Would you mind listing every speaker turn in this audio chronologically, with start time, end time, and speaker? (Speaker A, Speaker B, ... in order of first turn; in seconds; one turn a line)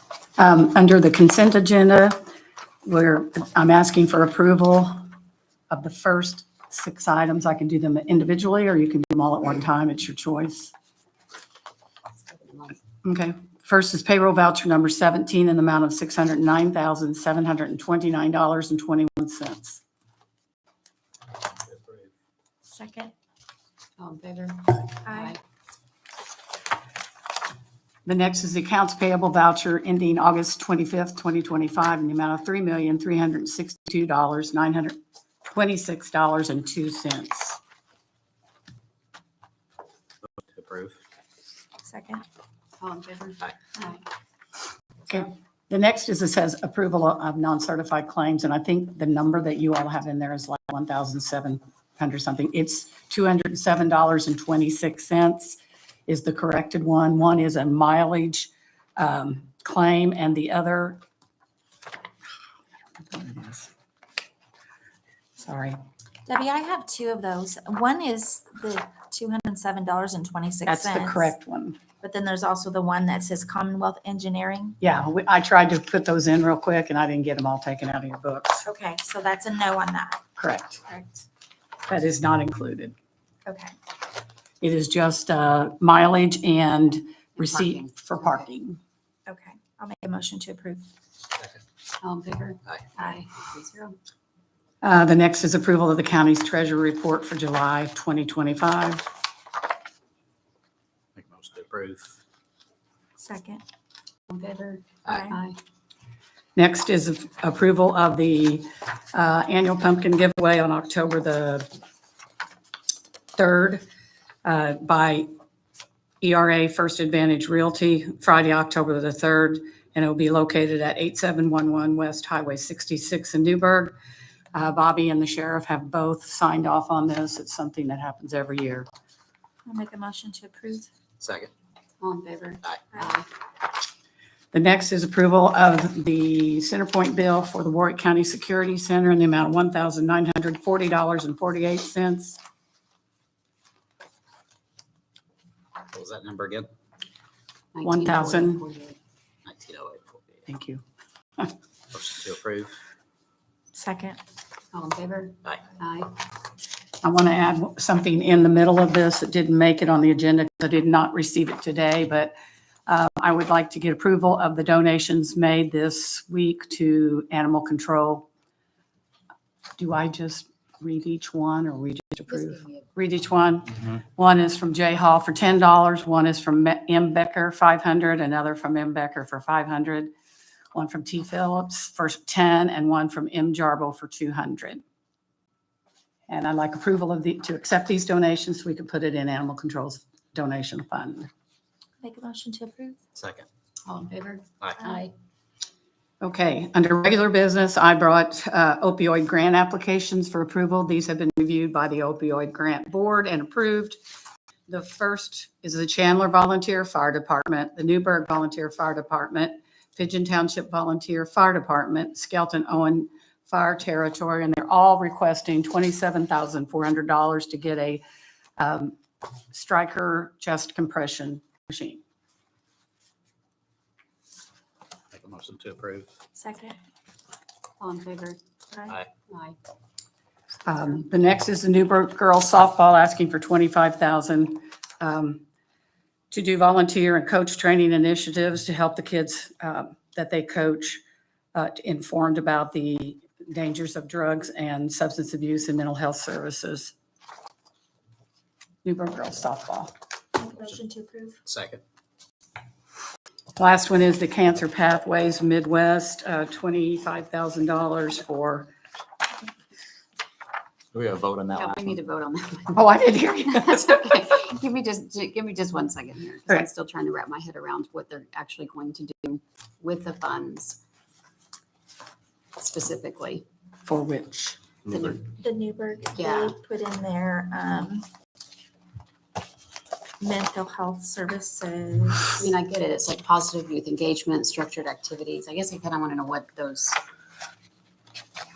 Speaker A: 0.4-2.2
Speaker A: 2.9-5.0
Speaker A: 5.7-10.7
Speaker B: 12.3-12.8
Speaker A: 13.0-19.8
Speaker C: 21.6-22.1
Speaker D: 22.7-23.1
Speaker B: 24.0-25.4
Speaker D: 25.0-25.4
Speaker A: 28.1-37.6
Speaker C: 40.3-41.0
Speaker D: 41.8-42.2
Speaker B: 42.8-44.0
Speaker A: 45.1-61.0
Speaker A: 63.0-63.7
Speaker A: 65.4-65.8
Speaker D: 66.3-71.3
Speaker A: 70.7-71.8
Speaker D: 72.0-74.8
Speaker A: 74.8-78.7
Speaker D: 78.6-80.2
Speaker A: 80.4-80.8
Speaker D: 80.9-81.2
Speaker A: 81.9-82.9
Speaker D: 83.5-83.8
Speaker A: 84.6-88.8
Speaker B: 87.4-88.4
Speaker D: 89.3-90.9
Speaker B: 92.0-94.0
Speaker A: 94.8-99.1
Speaker C: 101.2-102.2
Speaker D: 103.2-103.6
Speaker B: 104.3-105.6
Speaker D: 105.1-105.4
Speaker A: 106.6-111.7
Speaker A: 113.4-113.8
Speaker A: 114.5-115.3
Speaker A: 116.2-124.0
Speaker A: 124.5-128.9
Speaker D: 129.7-130.9
Speaker C: 131.2-131.5
Speaker B: 132.0-133.3
Speaker A: 134.5-142.4
Speaker C: 145.9-146.7
Speaker B: 147.8-149.0
Speaker A: 147.8-148.7
Speaker C: 149.5-150.4
Speaker A: 150.5-150.8
Speaker C: 151.9-152.8
Speaker D: 153.7-154.2
Speaker B: 154.7-156.2
Speaker A: 157.0-162.3
Speaker A: 162.9-168.3
Speaker A: 169.8-180.1
Speaker B: 172.3-172.9
Speaker A: 180.7-184.8
Speaker A: 186.3-191.3
Speaker D: 192.0-193.0
Speaker C: 193.2-193.5
Speaker B: 193.8-195.1
Speaker A: 196.2-204.0
Speaker A: 204.7-218.0
Speaker A: 218.6-219.0
Speaker A: 219.5-222.0
Speaker C: 225.1-226.1
Speaker D: 226.4-226.8
Speaker B: 227.8-228.4
Speaker B: 229.3-229.6
Speaker A: 230.7-235.4
Speaker A: 236.3-241.0
Speaker A: 241.5-246.9
Speaker A: 248.8-249.9
Speaker D: 250.4-251.4
Speaker C: 251.5-251.8
Speaker A: 253.6-258.7
Speaker C: 260.9-261.9
Speaker B: 261.5-270.8
Speaker A: 262.7-264.0
Speaker B: 272.6-273.4
Speaker A: 273.9-274.6
Speaker B: 274.9-275.2
Speaker D: 275.2-278.1
Speaker B: 276.2-276.6
Speaker D: 280.2-282.5
Speaker B: 282.4-287.0